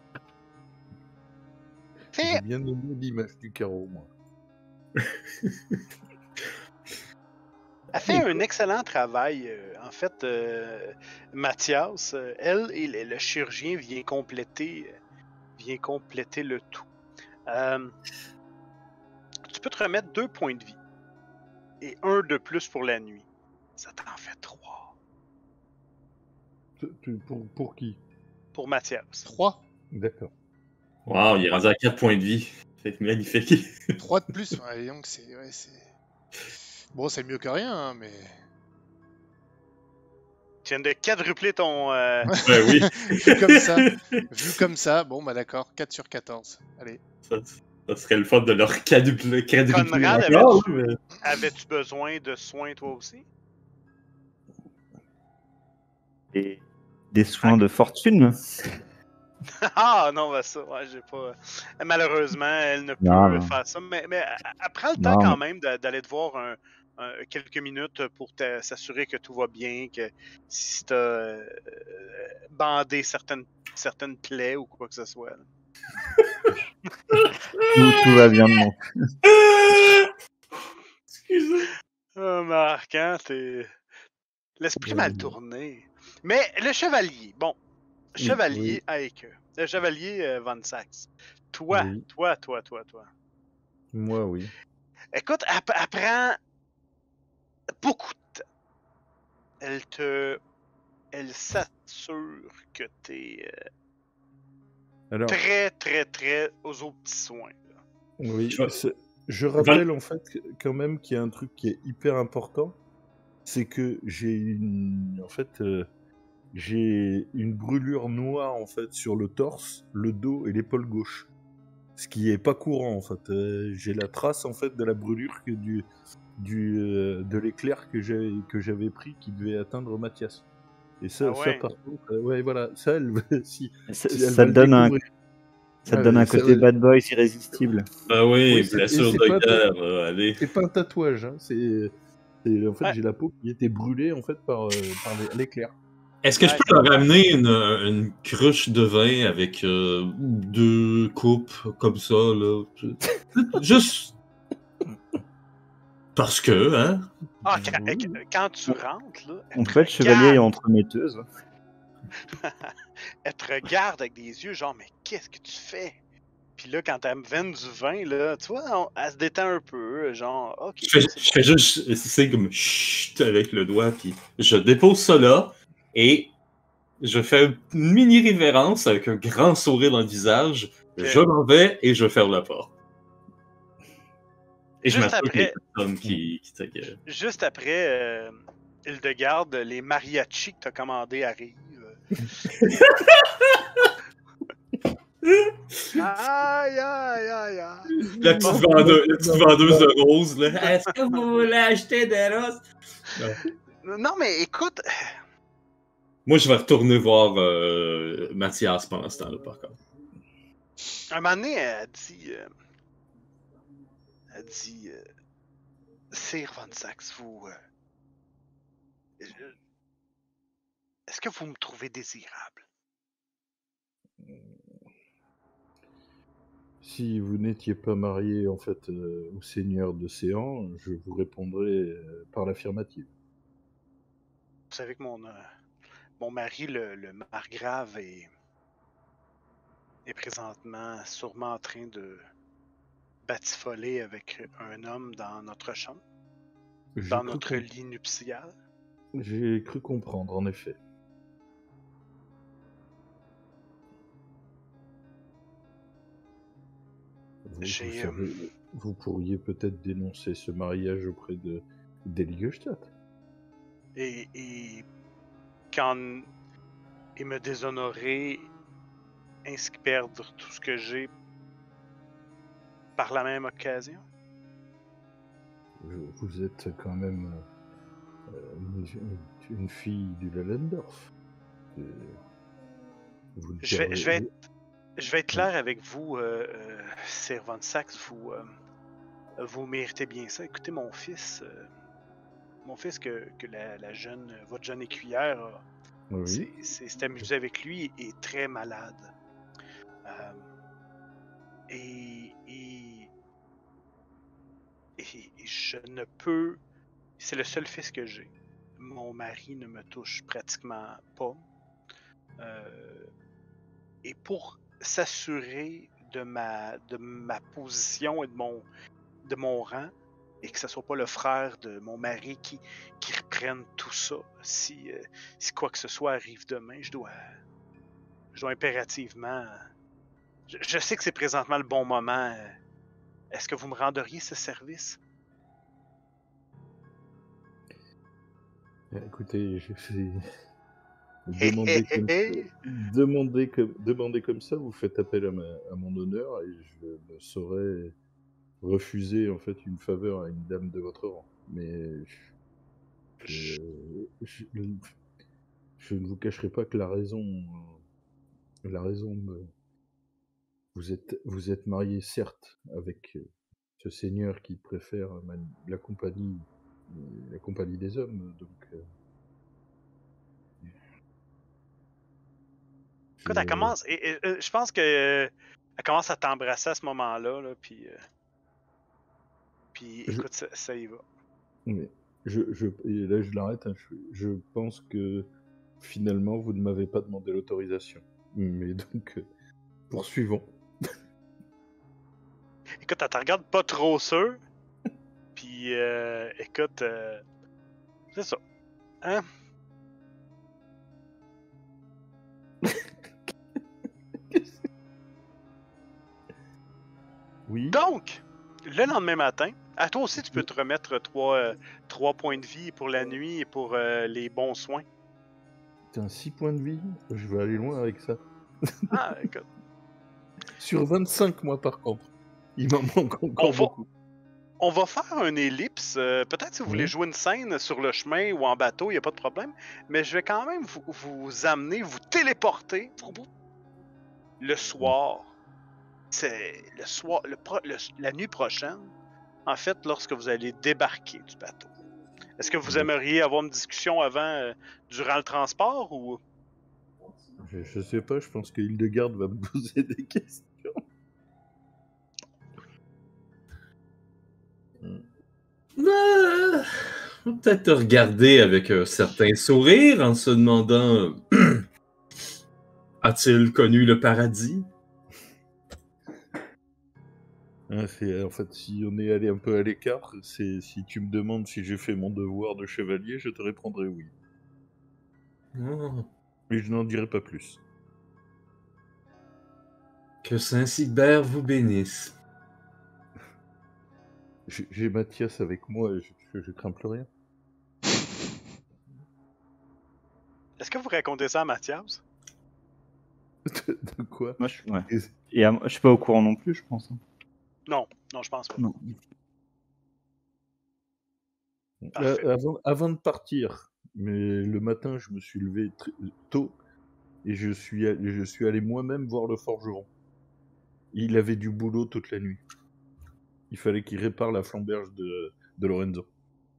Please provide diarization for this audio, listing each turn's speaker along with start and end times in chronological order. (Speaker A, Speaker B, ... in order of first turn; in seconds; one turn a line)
Speaker A: 2.1-2.4
Speaker B: 2.2-4.1
Speaker C: 5.0-5.5
Speaker A: 7.9-14.9
Speaker A: 15.6-16.9
Speaker A: 17.5-17.9
Speaker A: 19.5-20.8
Speaker A: 21.8-23.3
Speaker A: 23.8-24.9
Speaker B: 26.8-28.0
Speaker A: 28.6-29.3
Speaker D: 29.2-29.6
Speaker B: 29.9-30.3
Speaker C: 31.1-34.0
Speaker D: 34.0-35.8
Speaker D: 36.9-38.4
Speaker A: 40.6-42.3
Speaker D: 42.3-47.0
Speaker C: 42.4-44.2
Speaker C: 47.3-51.0
Speaker A: 49.7-53.2
Speaker E: 56.3-56.6
Speaker E: 57.1-58.4
Speaker A: 59.7-75.5
Speaker E: 63.0-63.5
Speaker E: 65.0-65.4
Speaker E: 77.7-78.8
Speaker C: 79.3-80.1
Speaker C: 81.2-81.7
Speaker A: 82.2-83.7
Speaker A: 84.6-87.5
Speaker B: 84.8-85.4
Speaker A: 88.1-93.1
Speaker B: 88.2-88.8
Speaker B: 91.7-92.0
Speaker B: 93.9-94.5
Speaker A: 95.1-96.4
Speaker A: 97.8-98.4
Speaker A: 99.6-100.4
Speaker A: 101.1-103.5
Speaker B: 105.1-105.4
Speaker A: 105.3-107.6
Speaker B: 108.2-112.8
Speaker C: 109.6-109.8
Speaker B: 113.5-115.9
Speaker B: 116.5-121.3
Speaker B: 122.0-130.4
Speaker B: 131.0-135.1
Speaker A: 131.2-131.7
Speaker E: 133.9-135.0
Speaker E: 135.9-137.9
Speaker B: 135.9-136.7
Speaker C: 138.1-140.4
Speaker B: 138.5-139.6
Speaker B: 140.4-141.9
Speaker B: 142.4-145.7
Speaker C: 146.2-154.1
Speaker A: 146.4-146.7
Speaker C: 156.1-157.1
Speaker A: 157.4-160.4
Speaker E: 159.6-161.2
Speaker A: 162.3-162.7
Speaker A: 163.2-165.9
Speaker A: 166.6-171.4
Speaker C: 170.8-176.3
Speaker C: 177.0-182.7
Speaker A: 181.0-181.2
Speaker C: 184.8-187.0
Speaker A: 184.9-185.6
Speaker A: 187.1-192.5
Speaker C: 192.6-193.9
Speaker A: 195.9-198.7
Speaker B: 198.0-199.9
Speaker C: 198.2-202.6
Speaker A: 203.8-204.8
Speaker C: 206.3-209.8
Speaker A: 211.1-212.5
Speaker A: 214.3-215.0
Speaker A: 216.1-217.5
Speaker A: 219.2-219.5
Speaker A: 221.1-222.6
Speaker B: 224.2-224.6
Speaker B: 226.8-233.1
Speaker A: 234.7-235.4
Speaker A: 236.2-238.3
Speaker A: 240.1-242.2
Speaker A: 243.2-246.0
Speaker B: 246.9-247.7
Speaker A: 247.1-248.5
Speaker B: 249.1-250.8
Speaker B: 257.5-262.9
Speaker A: 257.6-258.3
Speaker A: 263.9-264.9
Speaker A: 265.7-266.3
Speaker A: 267.2-268.5
Speaker A: 269.4-271.1
Speaker A: 273.0-274.0
Speaker B: 275.8-277.4
Speaker B: 278.3-281.1
Speaker B: 281.7-282.2
Speaker B: 283.4-284.3
Speaker A: 283.6-284.4
Speaker A: 285.0-288.5
Speaker A: 289.4-291.7
Speaker A: 292.6-295.6
Speaker B: 296.1-296.5
Speaker A: 296.2-299.1
Speaker A: 300.1-300.4
Speaker A: 301.7-303.1
Speaker A: 305.0-306.6
Speaker A: 307.2-311.4
Speaker A: 312.4-313.1
Speaker A: 314.0-318.6
Speaker A: 319.2-327.2
Speaker A: 328.3-329.6
Speaker A: 330.5-332.5
Speaker A: 333.3-335.0
Speaker B: 338.9-340.2
Speaker B: 341.3-347.9
Speaker A: 341.4-342.5
Speaker B: 348.6-352.3
Speaker B: 353.2-354.9
Speaker A: 353.2-353.6
Speaker B: 355.8-357.8
Speaker B: 358.6-359.5
Speaker B: 360.7-363.2
Speaker B: 363.8-368.8
Speaker B: 373.2-373.7
Speaker A: 373.3-378.0
Speaker A: 379.7-381.0
Speaker B: 381.6-389.3
Speaker B: 389.9-390.5
Speaker A: 392.8-394.4
Speaker A: 395.4-397.2
Speaker A: 398.1-398.4
Speaker B: 404.3-404.6
Speaker B: 407.5-407.8
Speaker A: 407.7-414.8
Speaker B: 415.9-419.0
Speaker A: 418.9-419.5
Speaker B: 420.6-423.9
Speaker A: 423.4-423.7
Speaker A: 424.6-433.3
Speaker B: 426.7-426.9
Speaker A: 434.4-435.3
Speaker A: 436.1-438.9
Speaker A: 439.4-441.7
Speaker A: 442.4-446.2
Speaker B: 447.4-450.8
Speaker C: 455.8-461.6
Speaker C: 463.0-464.7
Speaker B: 467.7-474.1
Speaker C: 475.6-476.1
Speaker B: 476.5-477.6
Speaker C: 480.2-482.1
Speaker B: 484.5-487.1
Speaker A: 490.6-492.0
Speaker B: 493.5-495.1
Speaker E: 494.4-497.0
Speaker A: 497.7-498.7
Speaker B: 501.8-506.6
Speaker A: 501.9-502.3
Speaker B: 507.2-509.9
Speaker B: 510.9-512.4
Speaker B: 513.5-516.1